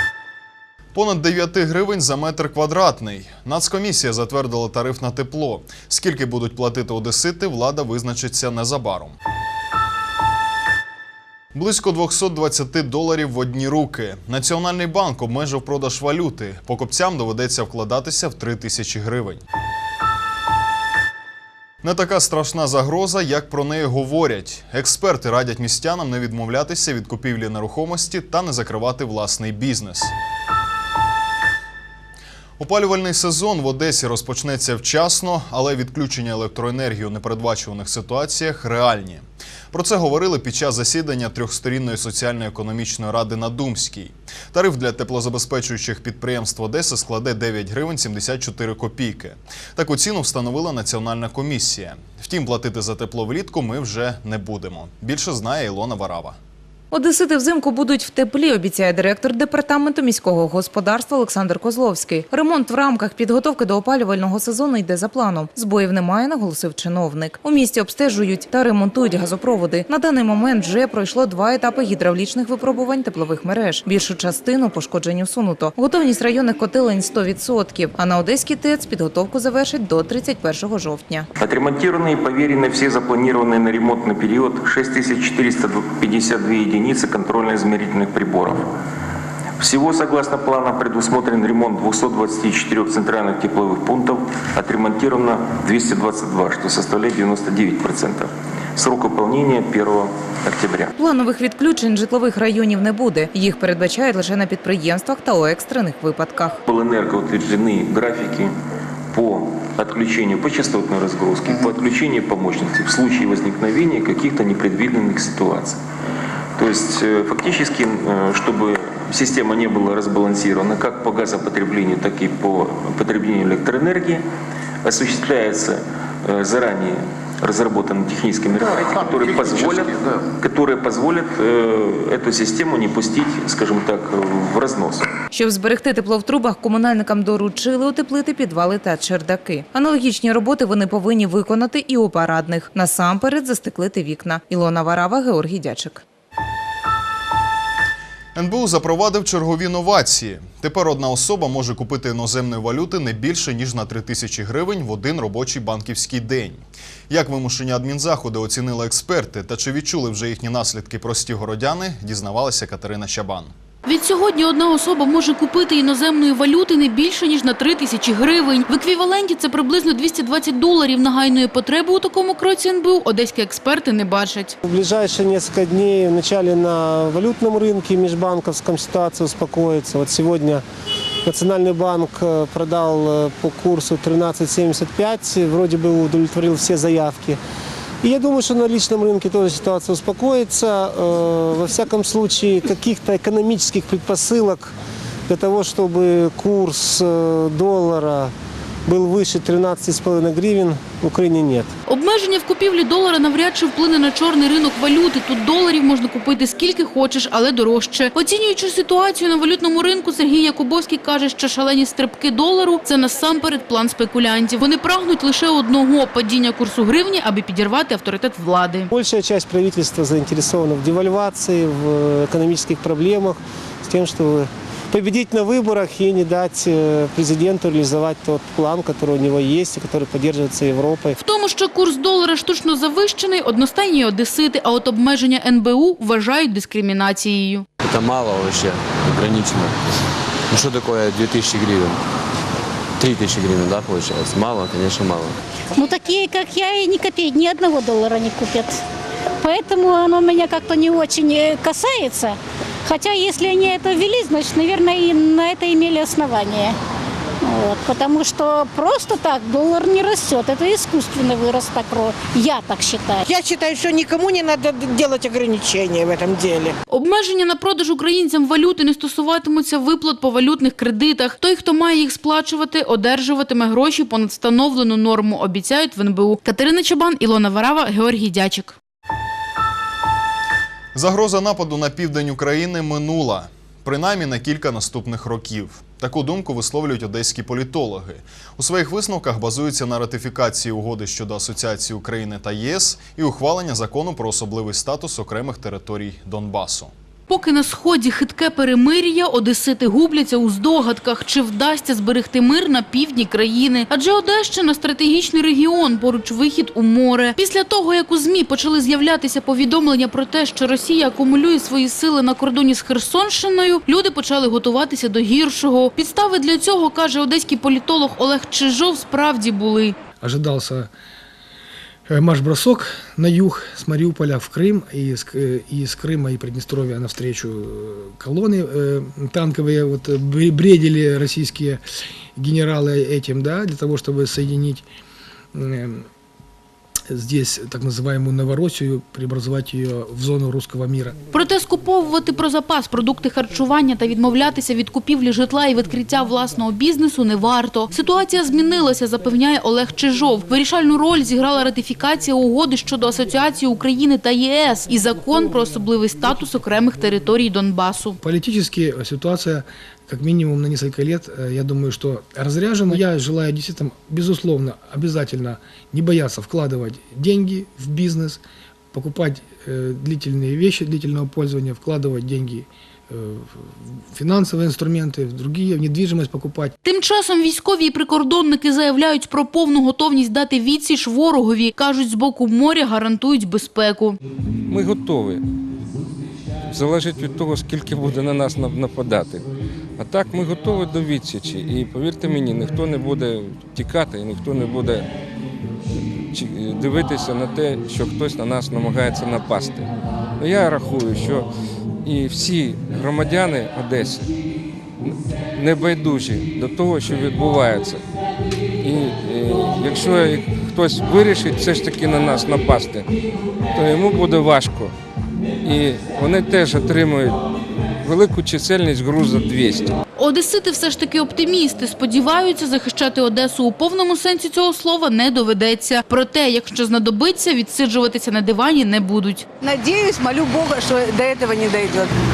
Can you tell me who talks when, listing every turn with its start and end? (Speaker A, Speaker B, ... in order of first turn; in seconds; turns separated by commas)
Speaker A: 0.9-9.1, Speaker A: 11.6-19.4, Speaker A: 21.8-30.1, Speaker A: 32.6-56.4, Speaker B: 56.9-81.3, Speaker C: 81.4-88.6, Speaker C: 89.6-100.9, Speaker B: 101.0-106.6, Speaker C: 106.7-108.5, Speaker C: 109.1-115.8, Speaker C: 116.6-124.2, Speaker C: 124.8-135.1, Speaker D: 129.2-130.2, Speaker B: 135.3-146.0, Speaker A: 148.4-163.5, Speaker E: 163.8-174.6, Speaker F: 174.6-180.6, Speaker F: 181.2-187.4, Speaker F: 188.0-194.7, Speaker F: 195.3-198.3, Speaker F: 198.9-201.7, Speaker E: 201.9-218.9, Speaker F: 218.9-231.2, Speaker E: 231.2-237.7, Speaker D: 237.8-239.7, Speaker D: 240.5-242.0, Speaker D: 243.0-245.3, Speaker G: 245.8-248.8, Speaker G: 249.4-256.8, Speaker G: 257.4-263.3, Speaker H: 263.4-266.7, Speaker E: 266.9-278.8, Speaker A: 280.9-296.9, Speaker E: 297.3-320.0, Speaker I: 320.2-320.9, Speaker I: 322.1-331.8, Speaker I: 332.4-334.8, Speaker I: 335.5-336.1, Speaker I: 337.1-341.2, Speaker E: 341.3-358.2, Speaker I: 358.2-368.4, Speaker I: 368.9-376.8, Speaker E: 376.8-384.2, Speaker J: 384.7-385.4, Speaker J: 386.7-389.5, Speaker J: 390.0-395.1, Speaker J: 396.3-401.5, Speaker J: 402.0-404.3, Speaker J: 405.0-408.0, Speaker J: 408.8-413.1, Speaker J: 413.8-414.9, Speaker J: 415.6-417.4, Speaker J: 418.0-419.9, Speaker E: 420.1-429.5, Speaker H: 429.6-432.1